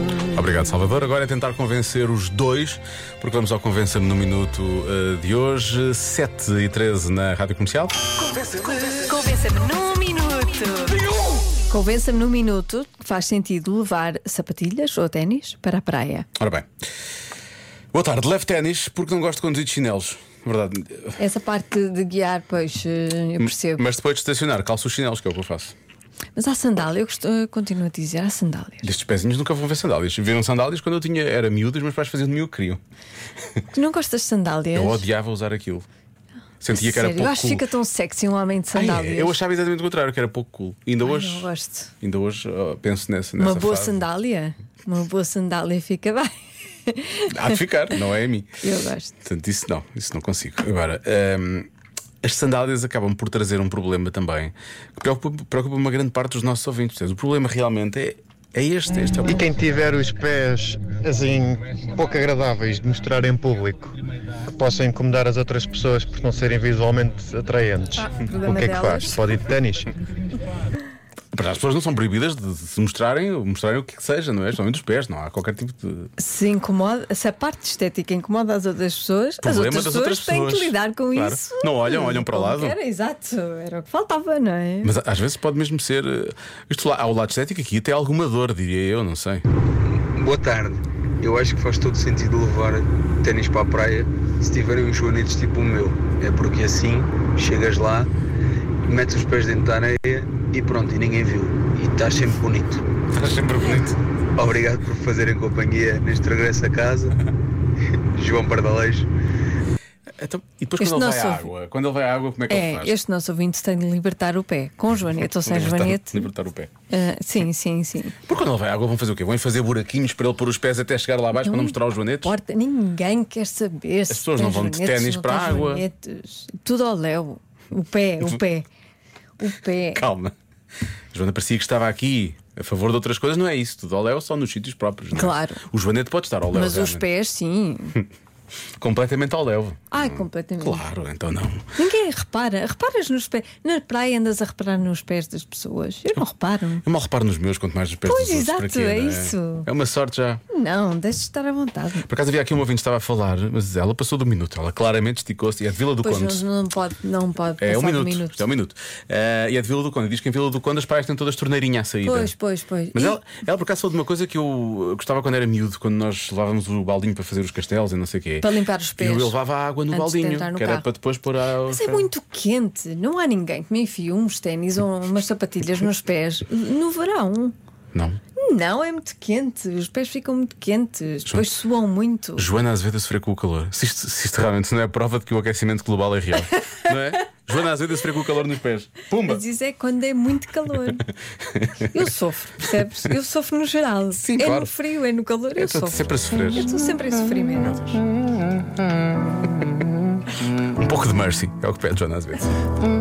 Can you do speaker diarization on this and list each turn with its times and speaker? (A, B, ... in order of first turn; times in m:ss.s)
0:00.3-0:08.0 A
0:08.2-0:16.3 B
0:16.4-0:16.7 A
0:17.9-0:21.2 A
0:21.2-0:23.8 B
0:23.4-0:25.7 A
0:26.4-0:28.9 B
0:28.8-0:32.8 A
0:33.7-0:35.1 B
0:34.8-0:35.9 A
0:36.6-0:37.7 A
0:36.7-0:39.4 B
0:38.7-0:41.5 A
0:41.0-0:41.9 B
0:42.0-0:44.0 A
0:43.4-0:46.3 B
0:46.9-0:47.6 B
0:47.3-0:48.5 A
0:48.6-0:49.2 B
0:49.2-0:51.7 A
0:52.2-0:59.5 A
0:59.2-1:03.9 C
1:04.5-1:09.9 C
1:08.0-1:09.2 B
1:11.3-1:16.1 A
1:16.2-1:25.0 B
1:19.4-1:22.8 A
1:24.8-1:29.4 A
1:29.8-1:38.1 D
1:38.8-1:42.9 D
1:43.1-1:44.0 A
1:44.3-1:47.2 D
1:48.0-1:49.1 D
1:50.2-1:53.0 A
1:50.8-1:51.5 B
1:52.5-1:56.3 B
1:55.2-1:56.7 A
1:56.9-1:58.2 B
1:58.2-2:02.3 A
2:01.4-2:08.7 B
2:04.1-2:05.8 A
2:09.4-2:10.0 B
2:09.9-2:10.3 A
2:11.1-2:17.0 A
2:15.1-2:15.6 B
2:16.5-2:18.0 B
2:18.8-2:21.7 A
2:19.9-2:20.8 B
2:21.8-2:26.8 B
2:26.8-2:30.4 A
2:28.0-2:29.7 B
2:30.5-2:32.1 B
2:32.0-2:36.4 A
2:36.0-2:38.4 B
2:37.6-2:42.3 A
2:42.0-2:43.2 B
2:42.9-2:48.5 A
2:48.4-2:49.4 B
2:49.0-2:52.1 A
2:49.9-2:50.8 B
2:51.7-2:57.5 B
2:57.9-2:58.2 A
2:58.4-3:02.5 B
3:02.4-3:09.4 A
3:09.2-3:11.0 B
3:10.8-3:11.9 A
3:11.8-3:17.8 B
3:14.2-3:14.7 A
3:15.6-3:16.7 A
3:17.6-3:18.0 A
3:20.6-3:22.7 A